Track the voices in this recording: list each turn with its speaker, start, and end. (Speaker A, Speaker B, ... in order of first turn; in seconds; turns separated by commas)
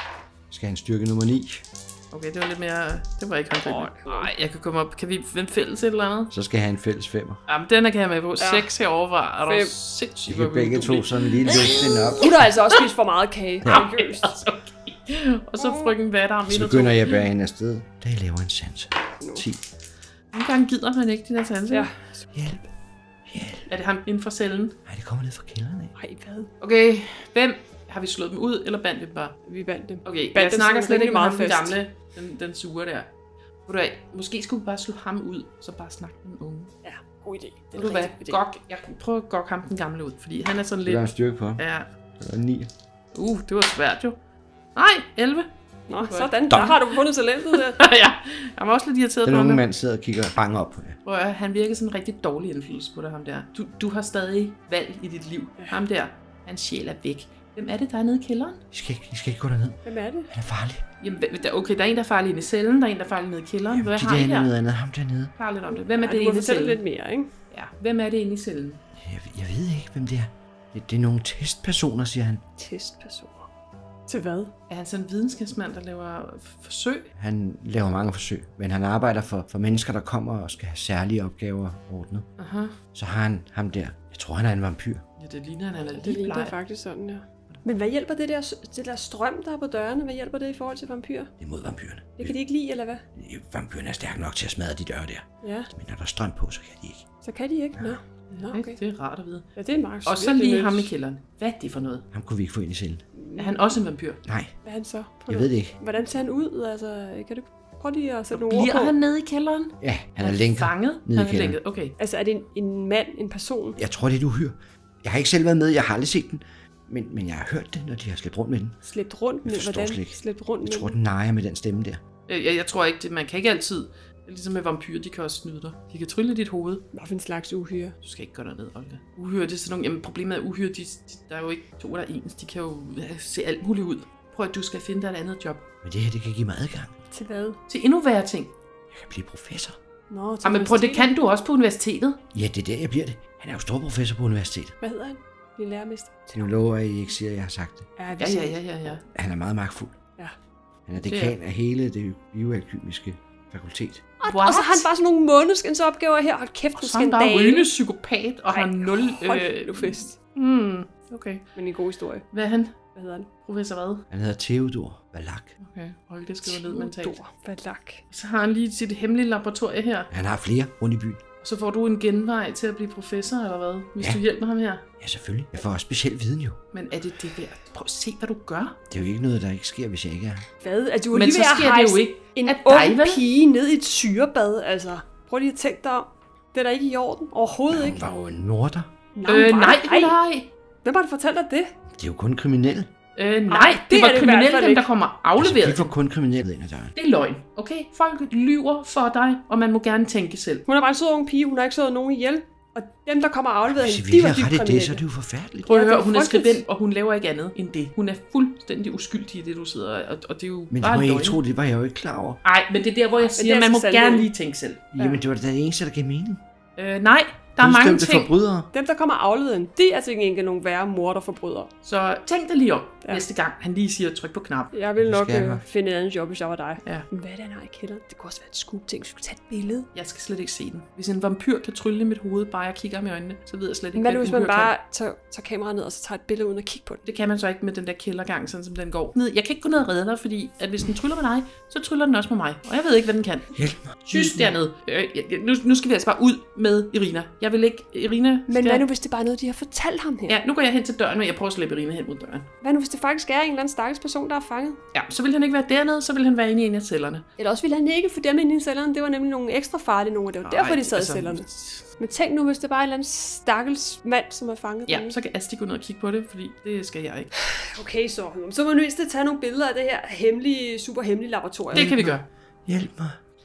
Speaker A: 0.5-1.6, Speaker B: 2.1-6.3, Speaker C: 3.6-4.3, Speaker A: 6.3-7.4, Speaker B: 7.5-12.8, Speaker C: 8.4-8.7, Speaker C: 9.5-9.7, Speaker A: 10.3-12.5, Speaker C: 11.5-14.4, Speaker B: 13.7-17.2, Speaker C: 15.6-15.9, Speaker A: 16.5-19.6, Speaker B: 20.3-21.9, Speaker C: 21.7-22.2, Speaker A: 22.3-22.7, Speaker A: 23.2-23.7, Speaker B: 23.7-24.8, Speaker A: 24.9-25.9, Speaker C: 26.0-26.5, Speaker B: 26.6-29.4, Speaker C: 29.4-31.8, Speaker B: 30.0-33.1, Speaker B: 33.6-36.7, Speaker C: 36.8-38.4, Speaker B: 37.8-41.1, Speaker A: 40.8-41.6, Speaker B: 41.6-41.9, Speaker A: 42.2-42.7, Speaker B: 43.1-44.2, Speaker B: 44.7-45.5, Speaker C: 45.9-47.8, Speaker B: 46.0-46.8, Speaker A: 46.5-46.7, Speaker B: 47.5-49.6, Speaker A: 49.2-51.0, Speaker B: 51.0-58.6, Speaker A: 58.7-60.8, Speaker C: 59.8-60.3, Speaker B: 61.0-64.5, Speaker A: 63.7-65.3, Speaker B: 65.4-66.8, Speaker C: 65.8-67.3, Speaker B: 67.5-68.8, Speaker A: 69.0-72.4, Speaker C: 72.6-73.5, Speaker C: 74.1-74.5, Speaker B: 74.7-77.1, Speaker A: 77.2-82.3, Speaker B: 82.4-82.8, Speaker A: 82.9-85.0, Speaker B: 85.2-86.5, Speaker C: 86.0-91.3, Speaker A: 91.4-92.3, Speaker C: 92.2-93.0, Speaker A: 93.1-97.1, Speaker C: 95.4-95.7, Speaker C: 97.2-98.8, Speaker B: 98.3-99.5, Speaker C: 99.5-100.9, Speaker B: 100.0-102.0, Speaker A: 102.1-103.0, Speaker C: 103.2-103.7, Speaker B: 103.3-104.2, Speaker A: 104.2-104.5, Speaker C: 104.6-108.9, Speaker A: 105.3-105.8, Speaker B: 108.3-111.9, Speaker A: 109.8-111.5, Speaker C: 112.0-113.8, Speaker A: 113.8-118.8, Speaker C: 118.8-120.9, Speaker A: 119.4-122.0, Speaker B: 122.3-126.8, Speaker C: 126.9-127.9, Speaker B: 128.0-135.6, Speaker A: 135.8-136.9, Speaker C: 137.1-137.6, Speaker B: 137.7-138.5, Speaker A: 138.9-139.8, Speaker C: 140.1-141.1, Speaker B: 140.4-142.2, Speaker A: 142.3-144.7, Speaker C: 144.8-146.4, Speaker A: 146.3-147.9, Speaker C: 148.0-148.6, Speaker B: 148.2-149.0, Speaker A: 149.1-150.0, Speaker A: 150.9-154.0, Speaker B: 151.0-151.3, Speaker C: 154.2-157.7, Speaker B: 154.2-154.8, Speaker B: 156.7-161.4, Speaker C: 158.5-160.2, Speaker C: 161.6-162.2, Speaker B: 162.3-162.8, Speaker C: 162.9-163.3, Speaker B: 163.4-164.0, Speaker A: 164.1-165.5, Speaker B: 165.6-167.2, Speaker C: 166.4-168.0, Speaker B: 168.1-170.1, Speaker A: 170.1-171.2, Speaker B: 171.4-174.8, Speaker A: 175.0-176.6, Speaker B: 176.7-178.8, Speaker A: 178.9-180.4, Speaker C: 180.6-188.0, Speaker B: 181.1-183.2, Speaker A: 187.7-188.9, Speaker C: 189.1-190.2, Speaker B: 189.2-190.5, Speaker C: 190.8-191.7, Speaker A: 191.9-192.9, Speaker B: 193.2-195.9, Speaker C: 193.5-194.8, Speaker A: 195.3-196.9, Speaker B: 196.9-200.7, Speaker C: 200.7-205.0, Speaker A: 203.6-205.7, Speaker B: 205.7-211.4, Speaker C: 205.7-206.6, Speaker A: 210.7-212.4, Speaker B: 212.4-214.9, Speaker C: 213.2-214.3, Speaker A: 214.9-216.4, Speaker C: 215.0-215.2, Speaker B: 216.8-218.3, Speaker A: 217.6-218.7, Speaker C: 218.7-221.7, Speaker B: 221.8-224.7, Speaker C: 224.7-229.9, Speaker A: 225.0-225.6, Speaker B: 229.9-234.7, Speaker C: 233.9-237.0, Speaker B: 237.0-243.5, Speaker A: 243.5-244.5, Speaker B: 244.1-248.8, Speaker C: 248.5-250.4, Speaker B: 250.3-252.5, Speaker C: 252.6-254.8, Speaker B: 254.9-257.2, Speaker C: 257.4-261.4, Speaker B: 260.4-261.9, Speaker C: 262.0-265.1, Speaker B: 264.9-267.3, Speaker C: 267.5-271.9, Speaker B: 271.7-272.2, Speaker A: 271.7-273.2